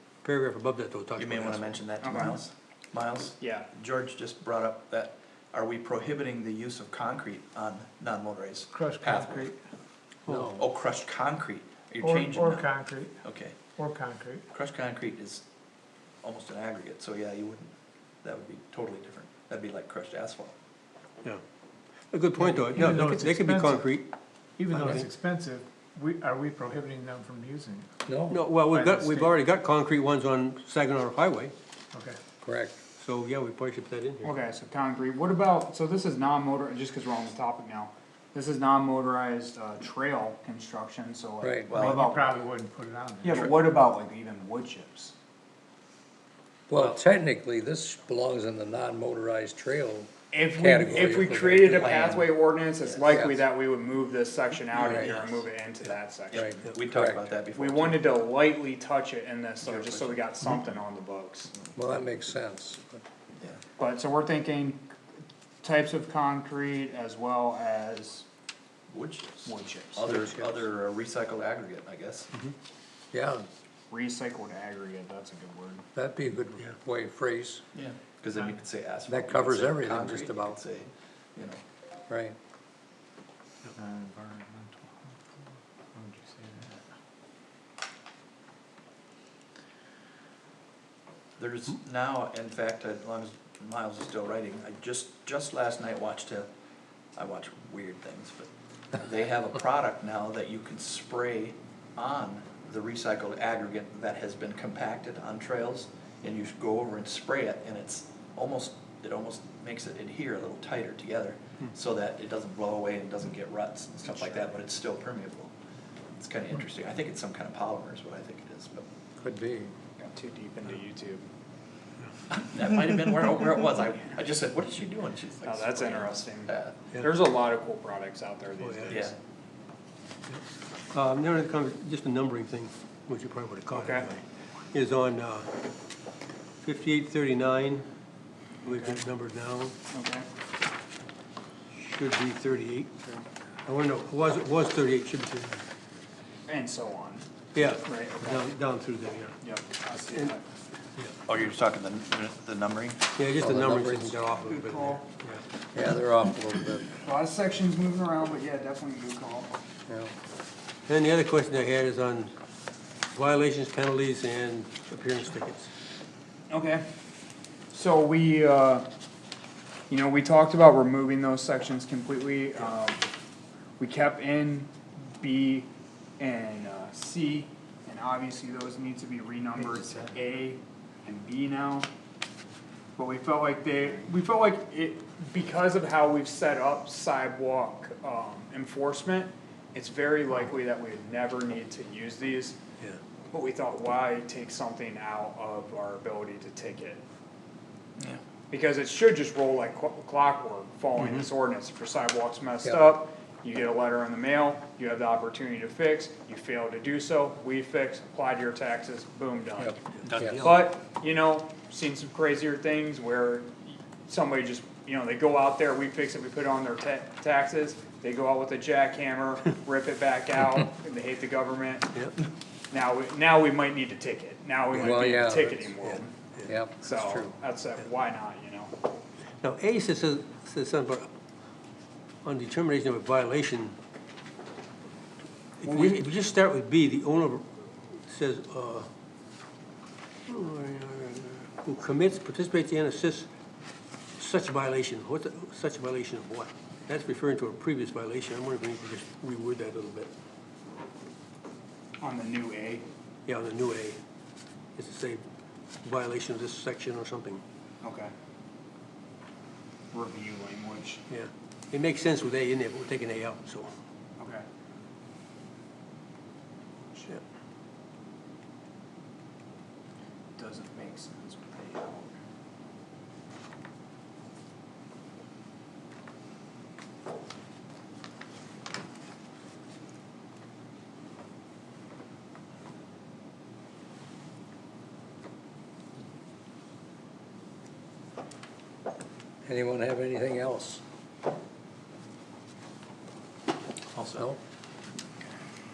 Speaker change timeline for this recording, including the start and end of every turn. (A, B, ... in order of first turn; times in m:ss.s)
0:00.2-0:01.7 A
0:01.2-0:09.5 B
0:02.0-0:02.4 C
0:03.4-0:03.7 C
0:08.7-0:09.6 D
0:10.3-0:10.5 A
0:10.3-0:10.6 E
0:10.6-0:13.6 B
0:12.0-0:13.2 D
0:13.8-0:14.5 D
0:14.5-0:15.4 B
0:16.2-0:20.6 B
0:22.1-0:24.1 A
0:22.4-0:24.0 D
0:24.6-0:28.0 D
0:24.7-0:25.1 A
0:24.8-0:25.0 E
0:28.1-0:28.4 E
0:28.3-0:31.5 A
0:28.6-0:29.3 D
0:31.9-0:32.2 D
0:32.4-0:32.8 E
0:33.0-0:34.3 A
0:34.2-0:42.3 C
0:41.4-0:41.8 E
0:41.7-0:42.2 B
0:41.7-0:43.5 D
0:43.2-0:45.2 C
0:46.7-0:52.0 E
0:50.3-0:56.6 C
0:51.7-0:52.3 B
0:52.8-0:53.2 B
0:53.1-0:53.4 E
0:54.7-0:55.1 E
0:54.8-0:55.4 A
0:56.3-0:58.2 B
0:56.3-0:57.2 E
0:57.5-1:01.5 C
0:59.6-1:00.2 B
1:01.8-1:03.0 E
1:03.8-1:04.8 C
1:05.6-1:08.3 C
1:08.9-1:12.3 B
1:09.4-1:10.1 C
1:10.0-1:10.6 E
1:13.1-1:13.5 E
1:13.9-1:15.8 C
1:16.0-1:17.6 E
1:17.7-1:21.6 B
1:19.1-1:20.6 E
1:22.1-1:22.4 E
1:23.8-1:24.9 D
1:26.0-1:26.7 D
1:31.4-1:36.5 B
1:37.2-1:55.5 B
1:54.0-1:54.6 C
1:56.2-1:58.9 B
1:59.2-1:59.7 E
2:00.0-2:01.3 C
2:02.3-2:06.8 B
2:05.4-2:09.2 C
2:08.6-2:09.0 A
2:08.9-2:09.2 B
2:10.9-2:15.5 A
2:13.7-2:14.1 C
2:16.6-2:17.9 A
2:18.6-2:19.8 A
2:18.6-2:19.0 C
2:19.9-2:20.3 C
2:21.7-2:23.0 A
2:23.7-2:25.6 A
2:26.5-2:28.4 C
2:27.6-2:29.4 A
2:29.4-2:30.4 C
2:31.3-2:33.0 B
2:33.2-2:35.4 A
2:33.4-2:34.2 E
2:34.4-2:35.1 C
2:35.7-2:36.9 E
2:36.9-2:39.5 C
2:39.9-2:40.1 E
2:40.9-2:42.3 A
2:43.1-2:45.7 A
2:46.5-2:46.8 C
2:47.7-2:48.9 C
2:49.9-2:53.1 C
2:53.8-3:01.9 C
2:59.6-3:00.1 D
3:03.0-3:12.6 C
3:13.3-3:17.0 C
3:18.5-3:41.9 C
3:21.0-3:21.3 A
3:22.6-3:23.0 E
3:29.6-3:30.5 E
3:30.0-3:30.5 A
3:42.7-3:46.2 C
3:44.7-3:45.7 E
3:45.8-3:46.6 A
3:46.5-3:47.4 E
3:46.8-3:48.7 C
3:49.4-3:51.1 A
3:52.2-3:53.8 A
3:55.6-3:58.9 A
3:55.6-3:56.0 C
4:00.3-4:03.3 A
4:04.2-4:10.1 A
4:12.0-4:12.9 C
4:13.3-4:14.0 A
4:14.8-4:15.2 A
4:15.8-4:17.4 A
4:17.8-4:18.1 C
4:19.9-4:21.0 C
4:21.1-4:23.7 A
4:24.2-4:24.5 C
4:30.4-4:32.2 C
4:49.4-4:50.8 E
4:53.9-4:54.3 B